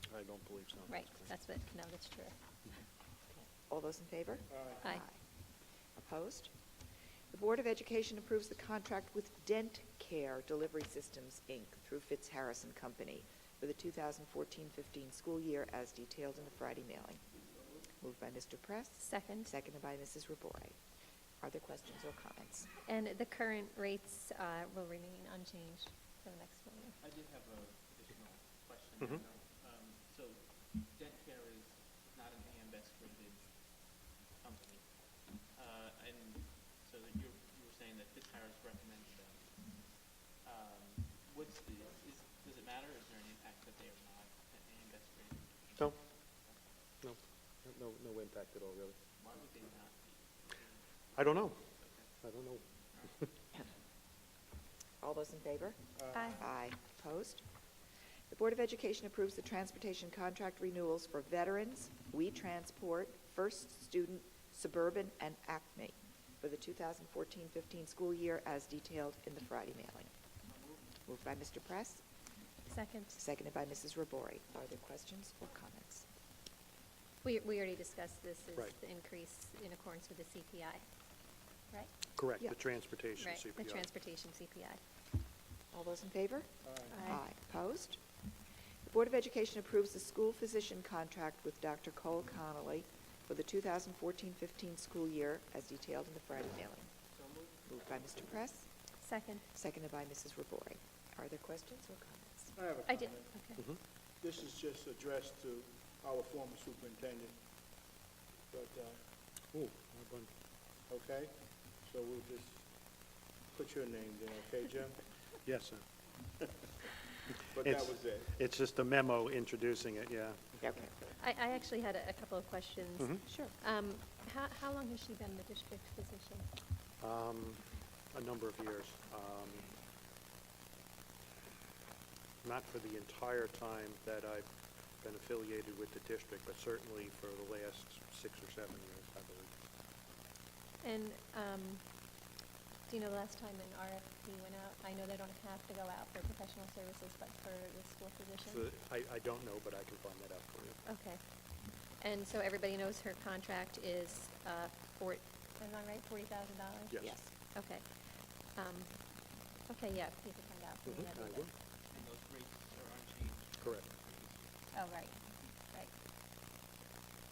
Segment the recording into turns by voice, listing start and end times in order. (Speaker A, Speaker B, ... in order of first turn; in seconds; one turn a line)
Speaker A: 0.1-1.3
Speaker B: 0.9-2.3
Speaker C: 3.7-5.2
Speaker D: 4.5-4.9
Speaker C: 6.0-6.5
Speaker C: 7.3-17.2
Speaker E: 17.4-17.8
Speaker C: 18.0-20.8
Speaker C: 21.4-22.7
Speaker B: 22.9-26.9
Speaker E: 27.0-33.5
Speaker E: 34.4-34.9
Speaker E: 35.4-39.8
Speaker E: 40.4-46.6
Speaker A: 47.0-49.0
Speaker E: 49.2-52.1
Speaker A: 51.2-51.6
Speaker A: 52.2-52.6
Speaker E: 52.9-53.2
Speaker C: 55.0-55.8
Speaker D: 56.0-56.4
Speaker C: 56.4-57.4
Speaker C: 58.3-70.1
Speaker E: 70.5-70.9
Speaker C: 71.1-72.0
Speaker B: 72.8-73.2
Speaker C: 73.2-76.0
Speaker B: 77.3-80.8
Speaker A: 82.2-83.9
Speaker B: 83.3-84.8
Speaker C: 85.7-88.0
Speaker D: 86.6-87.0
Speaker C: 88.8-96.9
Speaker E: 97.1-97.7
Speaker C: 97.7-98.7
Speaker B: 99.1-99.4
Speaker C: 99.5-102.5
Speaker D: 102.5-103.4
Speaker B: 102.9-103.5
Speaker D: 104.2-107.3
Speaker D: 108.5-109.0
Speaker A: 109.5-110.3
Speaker D: 110.9-112.7
Speaker D: 113.5-115.0
Speaker A: 115.4-115.8
Speaker D: 117.5-118.3
Speaker A: 117.6-120.6
Speaker C: 120.6-120.9
Speaker B: 121.3-126.5
Speaker C: 123.3-123.5
Speaker A: 127.0-129.7
Speaker A: 132.4-134.5
Speaker A: 135.0-139.5
Speaker B: 140.8-141.8
Speaker B: 142.9-148.6
Speaker A: 148.4-150.8
Speaker B: 150.9-151.2
Speaker B: 152.1-156.9
Speaker A: 156.9-157.2
Speaker C: 157.0-157.3
Speaker B: 157.6-157.8
Speaker B: 158.6-158.9
Speaker B: 159.7-161.5
Speaker A: 160.9-161.5
Speaker E: 161.9-164.6
Speaker A: 163.6-163.9
Speaker B: 164.7-165.2